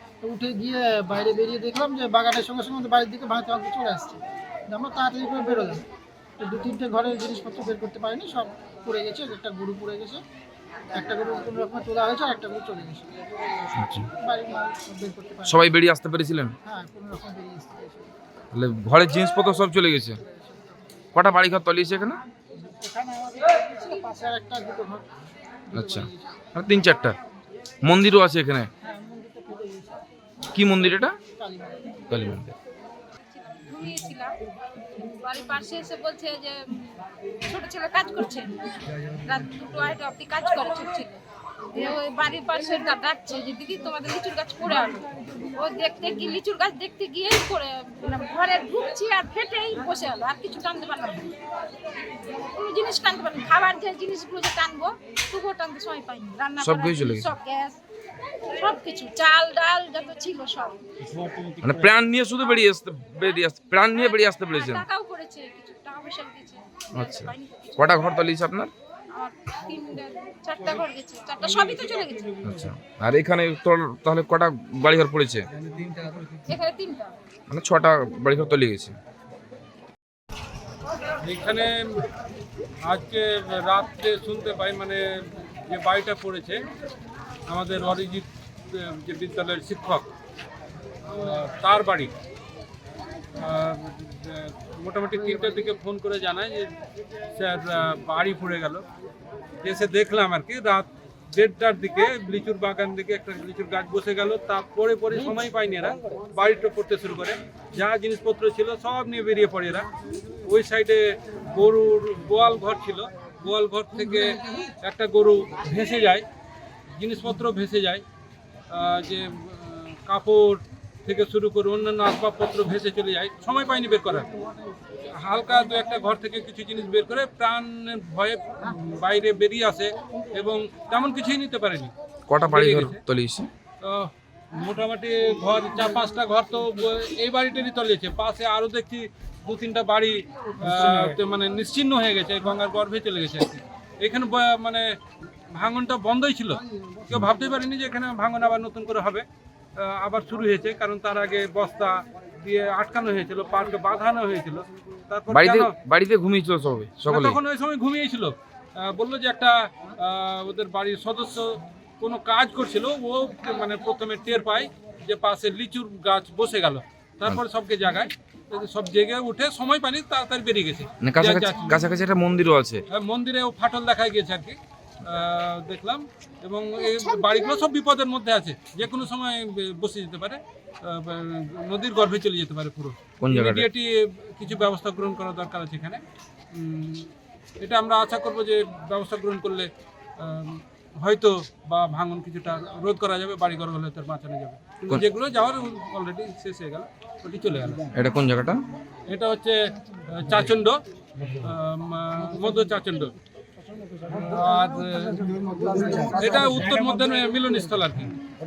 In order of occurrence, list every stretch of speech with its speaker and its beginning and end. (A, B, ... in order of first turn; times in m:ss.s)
0:00.2-0:05.8 A
0:06.4-0:10.2 A
0:10.9-0:13.1 A
0:13.8-0:14.1 B
0:14.2-0:15.6 A
0:15.5-0:16.6 B
0:16.6-0:18.1 A
0:18.5-0:20.2 B
0:21.1-0:22.2 B
0:22.7-0:25.1 A
0:25.7-0:26.4 A
0:25.8-0:27.2 B
0:27.8-0:28.7 B
0:28.9-0:29.8 A
0:30.5-0:31.2 B
0:31.4-0:32.0 A
0:32.1-0:32.6 B
0:33.3-0:34.4 C
0:35.0-0:41.2 C
0:41.7-0:51.3 C
0:52.3-0:57.8 C
0:56.6-0:57.3 B
0:58.6-1:00.8 C
1:01.6-1:04.8 B
1:03.9-1:08.2 C
1:06.9-1:08.7 B
1:09.1-1:12.4 C
1:12.4-1:15.5 B
1:16.3-1:17.1 C
1:17.5-1:19.0 B
1:21.2-1:22.1 D
1:22.8-1:26.6 D
1:27.5-1:30.1 D
1:31.1-1:32.1 D
1:33.4-1:36.7 D
1:37.3-1:38.9 D
1:39.6-1:49.9 D
1:50.4-1:56.3 D
1:57.0-1:58.0 D
1:58.7-2:04.3 D
2:05.1-2:11.9 D
2:12.3-2:13.5 B
2:12.5-2:13.0 D
2:13.8-2:25.0 D
2:25.5-2:29.2 D
2:29.8-2:35.7 D
2:35.3-2:37.4 B
2:37.1-2:51.9 D
2:51.0-2:52.8 B
2:52.9-3:06.0 D
2:56.8-2:57.6 C
3:03.2-3:03.7 B
3:06.5-3:17.9 D
3:17.9-3:18.6 B
3:19.1-3:19.6 D
3:20.1-3:20.8 D
3:21.3-3:23.2 D
3:24.1-3:28.2 D